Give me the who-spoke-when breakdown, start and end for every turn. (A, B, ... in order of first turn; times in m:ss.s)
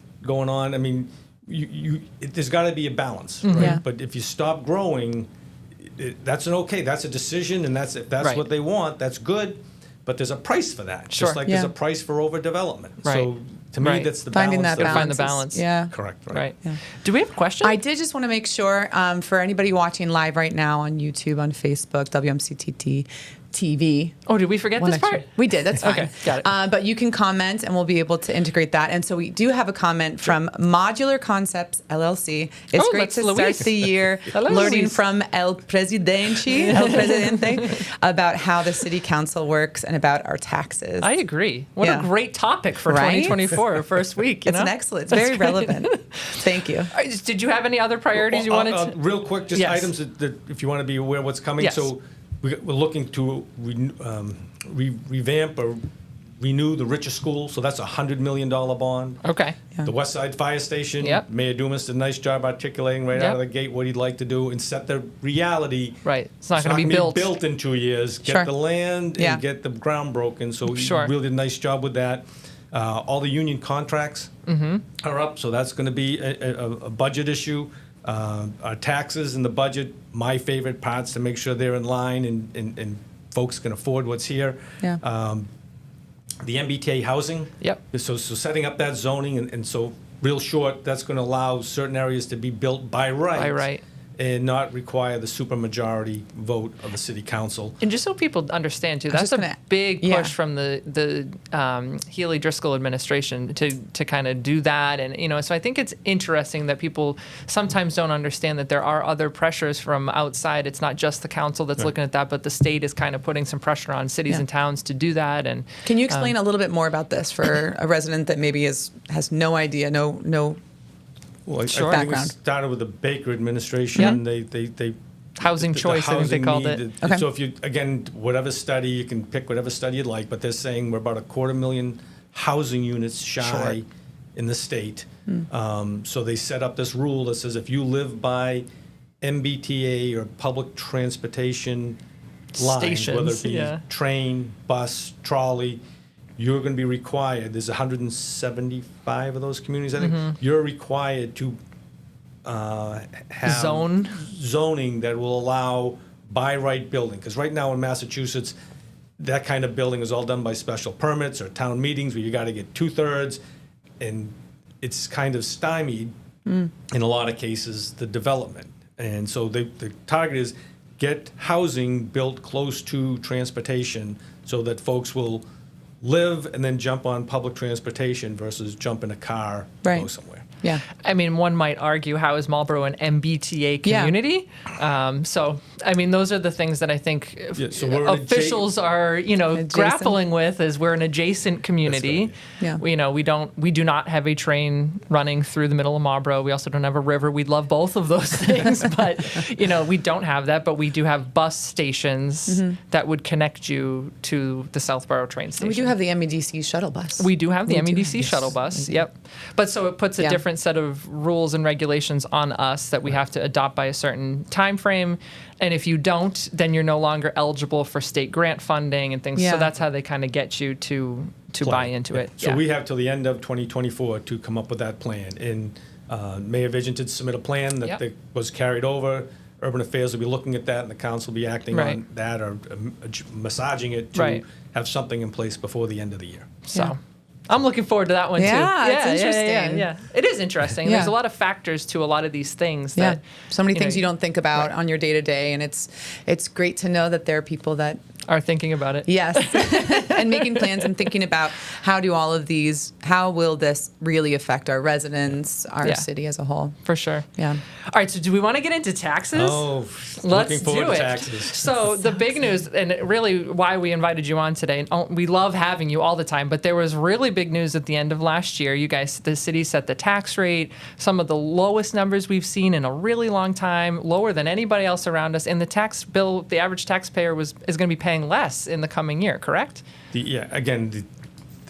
0:00.2-0:05.3 A
0:03.4-0:03.8 B
0:03.6-0:03.8 C
0:05.8-0:15.1 A
0:08.2-0:08.4 B
0:11.1-0:11.4 B
0:11.4-0:11.7 C
0:13.0-0:14.2 B
0:14.3-0:15.9 C
0:14.7-0:15.7 B
0:15.9-0:16.5 A
0:16.3-0:17.8 B
0:17.6-0:24.2 C
0:24.2-0:26.5 B
0:24.8-0:41.1 C
0:32.7-0:35.0 B
0:36.7-0:37.4 B
0:41.0-0:46.0 B
0:41.8-0:42.1 C
0:42.8-0:43.4 C
0:44.4-0:46.9 C
0:46.9-0:49.0 B
0:48.1-0:55.8 A
0:49.5-0:49.9 B
0:51.6-0:51.9 B
0:56.4-0:59.2 A
0:59.2-0:59.6 B
0:59.8-1:06.0 A
1:01.0-1:01.2 B
1:03.1-1:03.4 B
1:06.0-1:07.3 B
1:06.5-1:14.3 A
1:08.2-1:08.5 C
1:09.2-1:09.4 C
1:10.7-1:11.1 B
1:14.5-1:14.8 B
1:15.0-1:25.5 A
1:26.4-1:37.8 A
1:33.3-1:33.8 B
1:37.8-1:56.3 B
1:39.1-1:40.3 C
1:55.8-2:00.6 C
2:01.5-2:18.6 A
2:01.7-2:02.0 B
2:01.9-2:02.3 C
2:05.4-2:06.8 B
2:13.4-2:13.8 B
2:19.2-2:22.0 A
2:22.6-2:23.8 B
2:22.6-2:25.8 A
2:26.4-2:31.6 A
2:30.0-2:30.3 B
2:32.4-2:38.6 A
2:33.4-2:34.2 B
2:39.2-2:43.4 A
2:44.0-2:46.1 A
2:46.4-2:46.7 C
2:46.9-2:55.4 A
2:56.0-3:00.5 A
3:01.0-3:25.9 B
3:03.8-3:04.1 C
3:07.6-3:08.7 A
3:09.5-3:10.2 C
3:11.8-3:12.4 A
3:22.5-3:22.8 C
3:25.6-3:29.0 C
3:27.2-3:42.6 B
3:39.4-3:39.7 C
3:41.6-3:56.6 A
3:51.7-3:52.0 B
3:54.1-3:54.4 B
3:56.7-3:57.0 B
3:57.5-4:04.0 B
3:58.4-3:59.9 C
4:00.8-4:01.1 C
4:03.0-4:08.0 C
4:08.3-4:10.9 B
4:09.0-4:16.8 C
4:16.8-4:17.3 B
4:17.9-4:19.7 B
4:19.3-4:21.7 A
4:20.2-4:39.8 B
4:40.1-4:41.1 A